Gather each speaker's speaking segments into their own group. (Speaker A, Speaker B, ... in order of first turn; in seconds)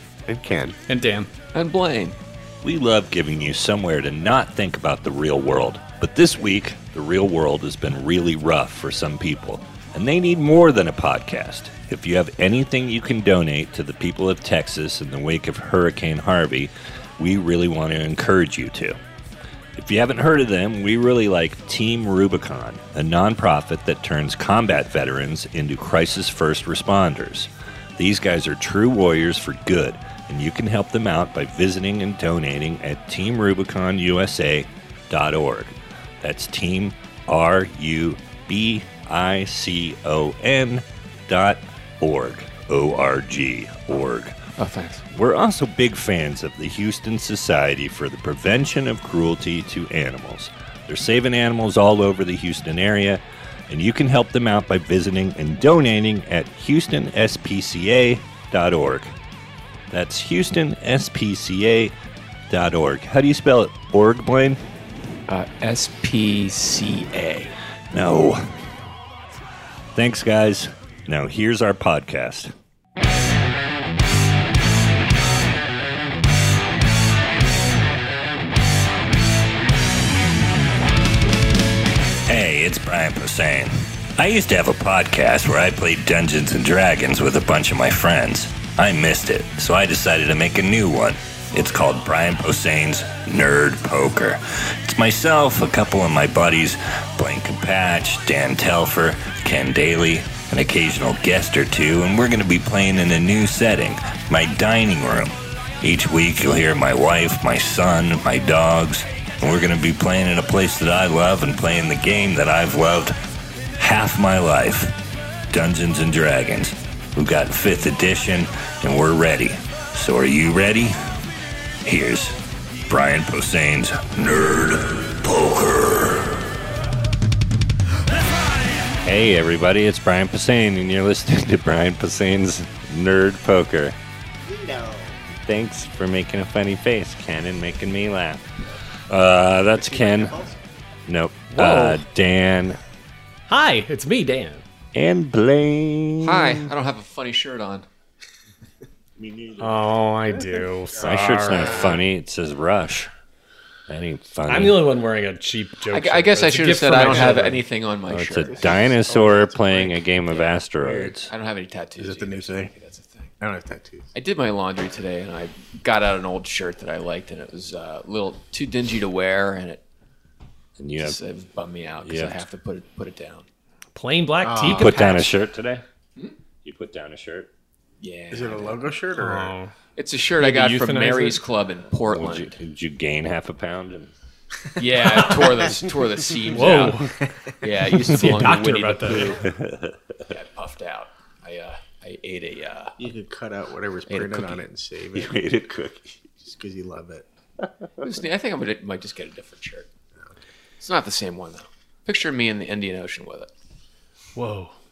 Speaker A: 0.3-0.8, 134.4-135.2, 139.8-140.6, 157.0-157.4, 158.4-160.0, 160.8-161.1, 162.0-162.7, 163.4-164.1, 174.4-174.9, 178.3-179.5, 193.0-195.3, 196.4-197.2
Speaker B: 0.9-1.3, 141.5-142.0, 143.5-144.6, 149.6-152.0, 154.5-157.6, 173.9-175.3, 179.2-179.7, 180.4-181.4, 185.0-185.3, 186.5-187.2, 188.0-189.4, 204.3-204.7
Speaker C: 1.5-2.2, 44.6-45.0, 65.3-67.5, 146.2-147.8, 155.9-158.6, 160.3-160.6, 161.3-163.3, 164.1-169.8, 171.0-173.5, 178.0-178.8, 180.0-182.5, 184.8-187.1, 187.6-189.4, 190.3-192.9, 194.1-194.6, 198.0-199.9, 200.8-203.5
Speaker D: 2.6-19.0, 19.8-44.4, 45.1-59.1, 59.9-61.9, 62.5-64.6, 67.9-68.5, 69.9-72.5, 82.3-113.2, 113.8-115.0, 115.5-121.0, 121.8-122.4, 122.9-126.4, 129.0-134.0, 135.3-138.4, 139.1-140.3, 141.1-142.8, 144.9-146.7, 149.2-149.7, 151.0-153.1, 153.9-154.8, 158.1-161.3, 170.8-171.2, 172.0-172.4, 174.7-175.8, 176.6-177.5, 182.1-184.1, 189.4-190.0, 195.1-196.2